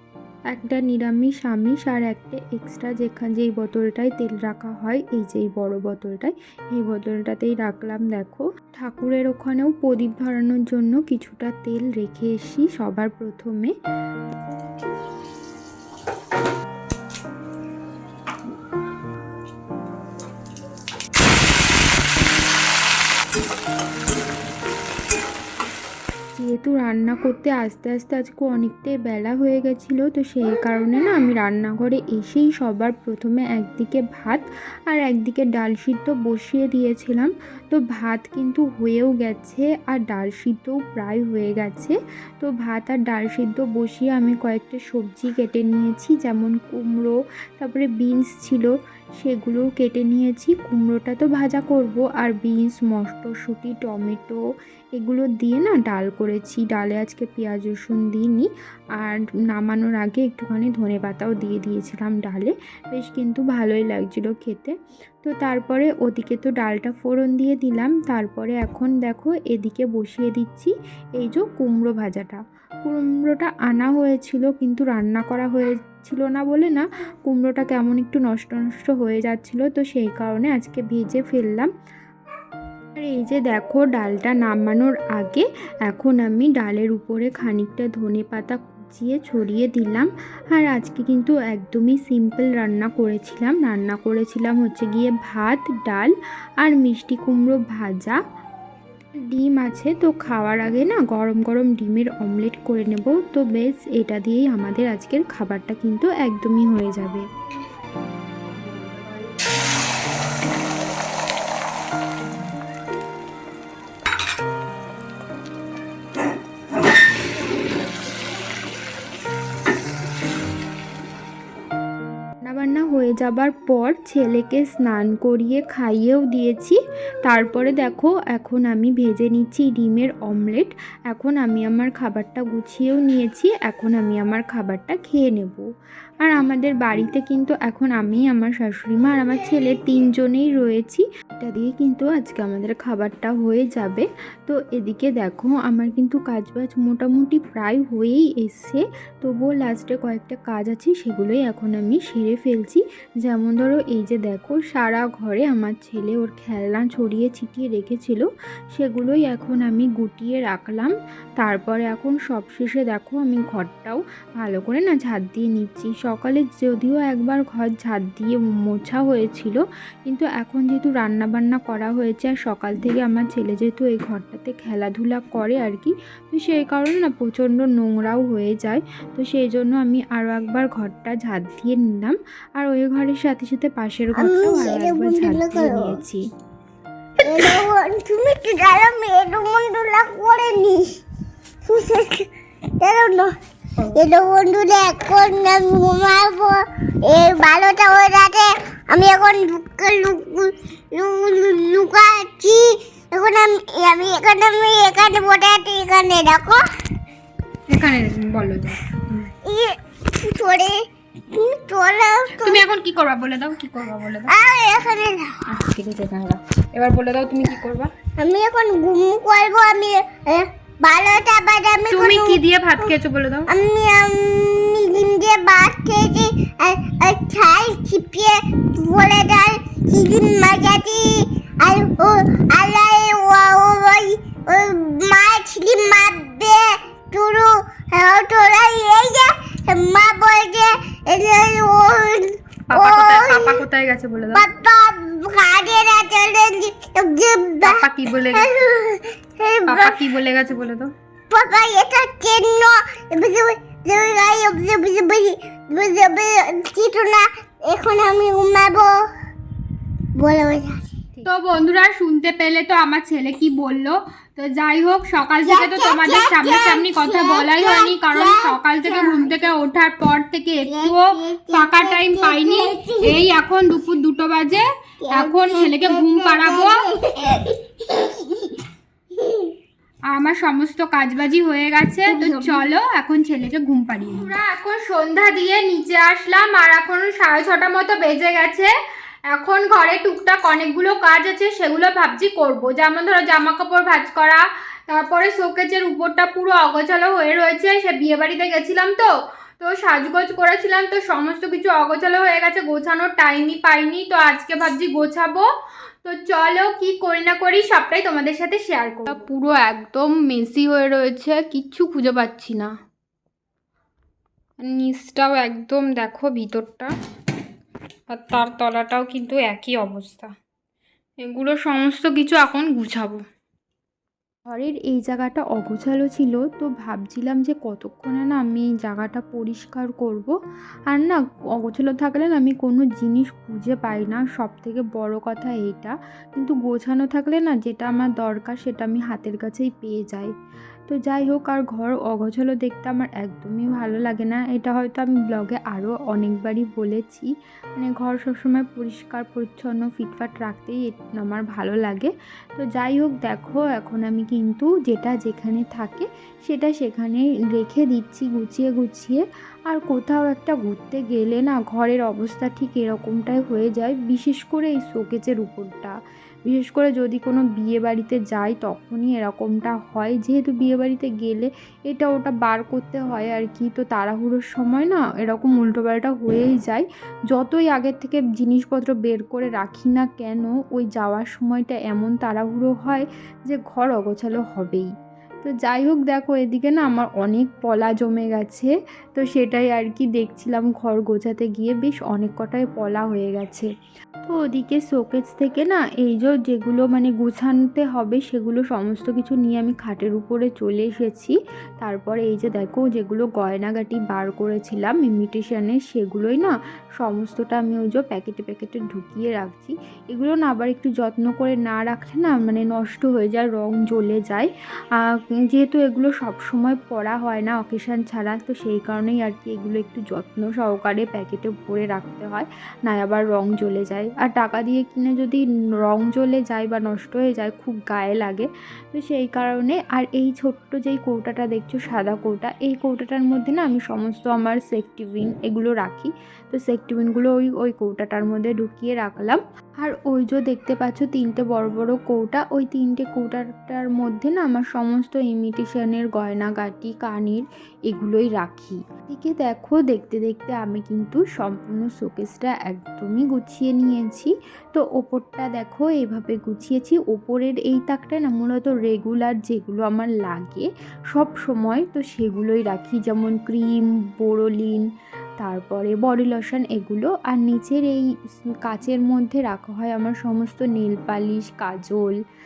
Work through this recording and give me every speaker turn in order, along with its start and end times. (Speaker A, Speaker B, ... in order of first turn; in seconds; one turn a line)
Speaker A: 0.5-13.7
Speaker A: 26.4-54.4
Speaker A: 55.0-81.7
Speaker A: 83.0-98.2
Speaker A: 99.3-107.3
Speaker A: 122.5-135.7
Speaker A: 136.2-186.2
Speaker B: 184.1-186.0
Speaker B: 187.2-190.9
Speaker B: 191.7-193.3
Speaker B: 193.9-206.7
Speaker A: 207.7-209.3
Speaker B: 209.4-212.7
Speaker A: 212.4-214.3
Speaker B: 214.3-215.5
Speaker A: 215.4-217.9
Speaker B: 218.2-222.4
Speaker A: 221.9-223.5
Speaker B: 223.5-243.6
Speaker A: 242.7-244.5
Speaker B: 244.3-250.0
Speaker A: 247.6-248.5
Speaker A: 249.7-250.9
Speaker B: 251.3-259.1
Speaker B: 260.1-260.9
Speaker A: 261.2-276.9
Speaker B: 265.4-269.3
Speaker B: 270.6-273.3
Speaker B: 275.1-279.5
Speaker A: 280.1-288.7
Speaker B: 282.1-282.6
Speaker A: 289.3-305.5
Speaker A: 306.1-312.7
Speaker A: 314.6-316.9
Speaker A: 318.1-320.3
Speaker A: 321.2-323.2
Speaker A: 324.5-330.3
Speaker A: 330.9-340.3
Speaker A: 340.9-366.0
Speaker A: 366.5-384.9
Speaker A: 385.4-393.7
Speaker A: 394.2-464.8
Speaker A: 465.4-472.2